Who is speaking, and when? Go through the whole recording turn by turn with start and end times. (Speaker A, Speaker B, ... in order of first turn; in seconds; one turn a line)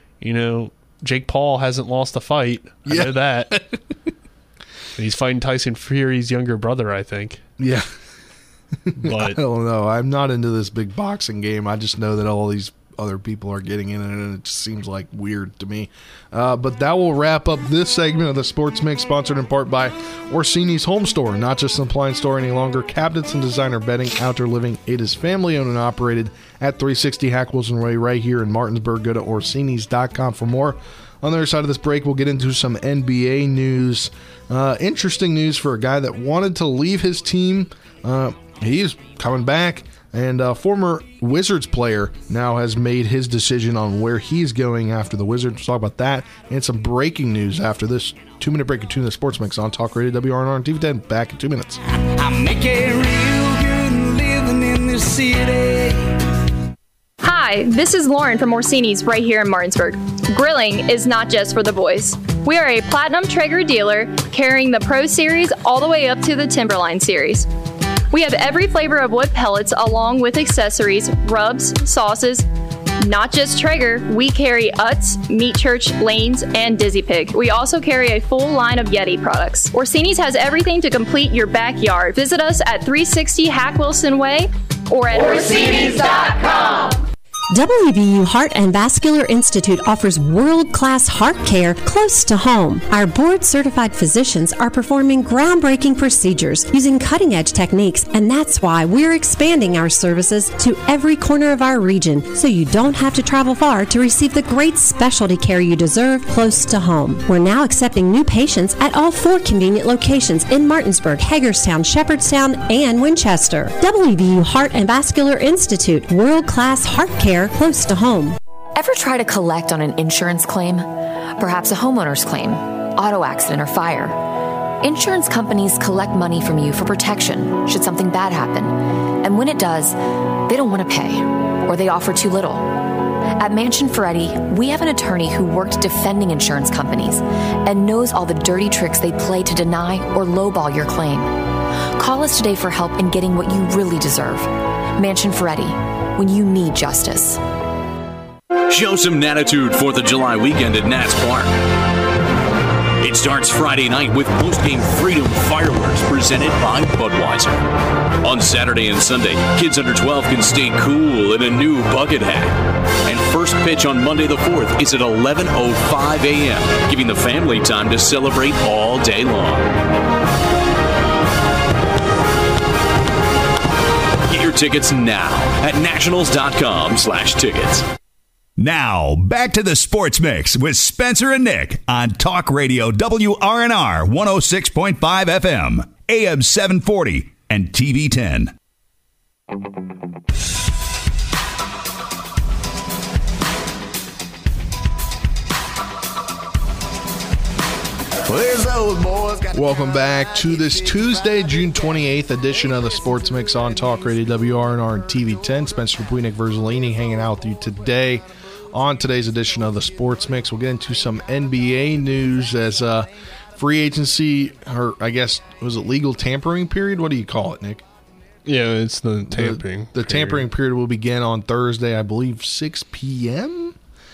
Speaker A: 0.2-3.6
Speaker B: 2.9-3.8
Speaker A: 4.9-7.4
Speaker B: 7.6-7.9
Speaker B: 8.8-51.8
Speaker A: 9.0-9.4
Speaker C: 52.0-56.2
Speaker D: 57.2-67.5
Speaker D: 68.1-72.5
Speaker D: 73.0-87.0
Speaker E: 87.5-118.3
Speaker F: 118.8-124.2
Speaker F: 124.8-132.8
Speaker F: 133.4-141.3
Speaker F: 141.9-147.4
Speaker G: 148.7-151.5
Speaker G: 153.0-157.6
Speaker G: 158.2-169.7
Speaker G: 174.2-177.9
Speaker H: 178.6-188.5
Speaker C: 198.2-199.5
Speaker B: 199.5-217.8
Speaker A: 218.4-220.5
Speaker B: 219.3-223.8